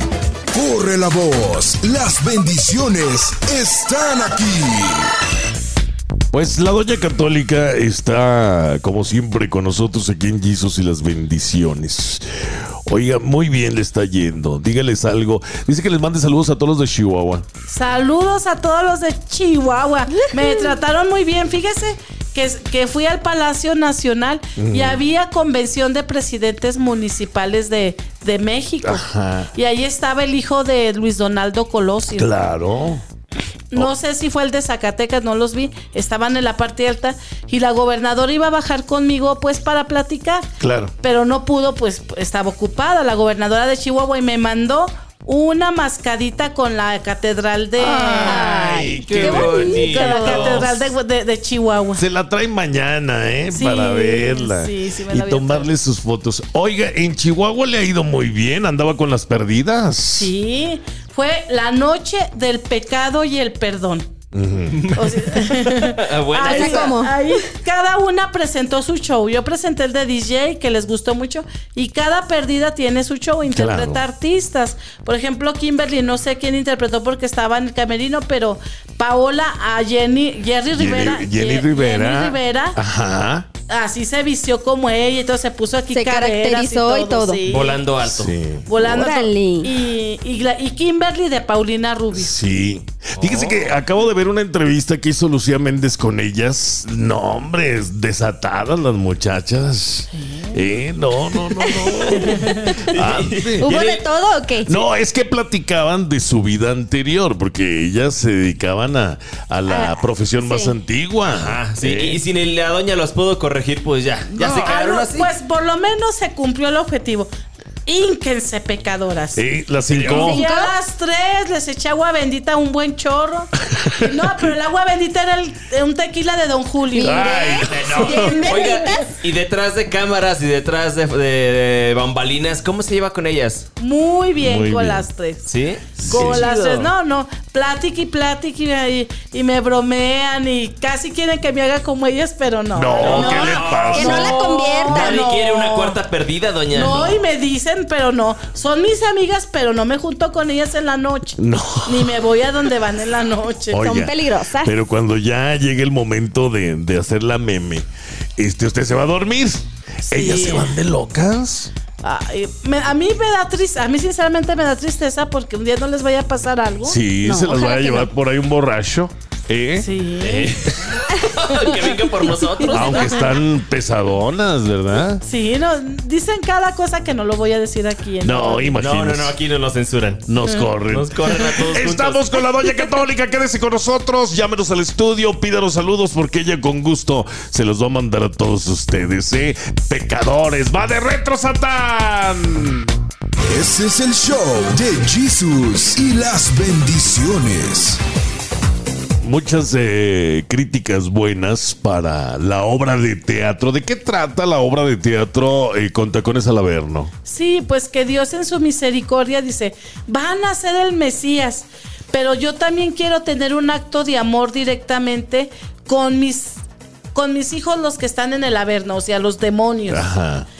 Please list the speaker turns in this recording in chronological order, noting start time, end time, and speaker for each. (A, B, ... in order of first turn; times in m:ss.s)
0:00.5-0:05.1 A
0:06.3-0:12.2 B
0:12.9-0:17.4 B
0:17.6-0:32.3 C
0:20.2-0:20.8 D
0:24.6-0:25.0 B
0:28.8-0:29.5 B
0:32.1-0:33.0 B
0:33.7-0:40.5 C
0:40.6-0:40.9 B
0:41.0-0:48.5 C
0:47.8-0:50.5 D
0:48.1-0:50.8 B
0:48.3-0:50.8 E
0:49.2-0:52.0 C
0:52.0-1:00.3 B
0:53.5-0:55.7 C
1:00.2-1:04.1 C
1:04.3-1:04.8 B
1:04.7-1:07.0 E
1:04.9-1:22.8 C
1:06.4-1:07.5 D
1:13.4-1:14.0 B
1:20.7-1:23.5 B
1:23.7-1:27.8 C
1:25.9-1:27.4 D
1:27.4-1:28.3 E
1:28.0-1:28.8 B
1:28.6-1:32.3 C
1:28.8-1:29.7 D
1:32.1-1:43.7 B
1:33.2-1:33.7 E
1:40.1-1:40.6 C
1:42.1-1:42.6 C
1:42.3-1:44.1 E
1:42.6-1:43.0 D
1:43.6-1:44.8 D
1:44.6-1:52.2 B
1:49.6-1:50.8 D
1:51.3-1:55.3 E
1:54.4-1:54.7 B
1:54.6-1:57.3 C
1:57.8-1:59.4 C
1:59.3-2:00.4 B
1:59.9-2:00.3 E
2:00.1-2:00.7 D
2:00.2-2:08.5 C
2:06.9-2:09.1 D
2:07.0-2:08.4 B
2:07.6-2:13.7 E
2:13.8-2:15.4 C
2:14.4-2:15.1 B
2:15.4-2:16.9 E
2:16.0-2:16.5 B
2:16.1-2:26.0 C
2:22.7-2:24.4 B
2:23.0-2:27.2 E
2:23.1-2:25.2 D
2:26.7-2:33.8 C
2:31.4-2:32.2 B
2:33.7-2:37.8 B
2:33.8-2:34.7 D
2:38.4-2:41.7 B
2:40.1-2:40.8 C
2:42.0-2:47.0 C
2:46.8-2:49.9 B
2:47.2-2:48.1 D
2:49.8-2:50.5 C
2:50.2-2:53.3 E
2:52.7-2:55.2 B
2:52.8-2:53.0 C
2:55.2-2:58.8 C
2:58.2-2:59.4 B
2:58.8-3:00.2 E
3:00.2-3:12.9 B
3:00.4-3:00.7 C
3:00.9-3:02.2 E
3:13.5-3:18.0 A
3:19.2-3:27.1 B
3:27.2-3:36.6 C
3:37.1-3:40.1 C
3:39.9-3:40.5 B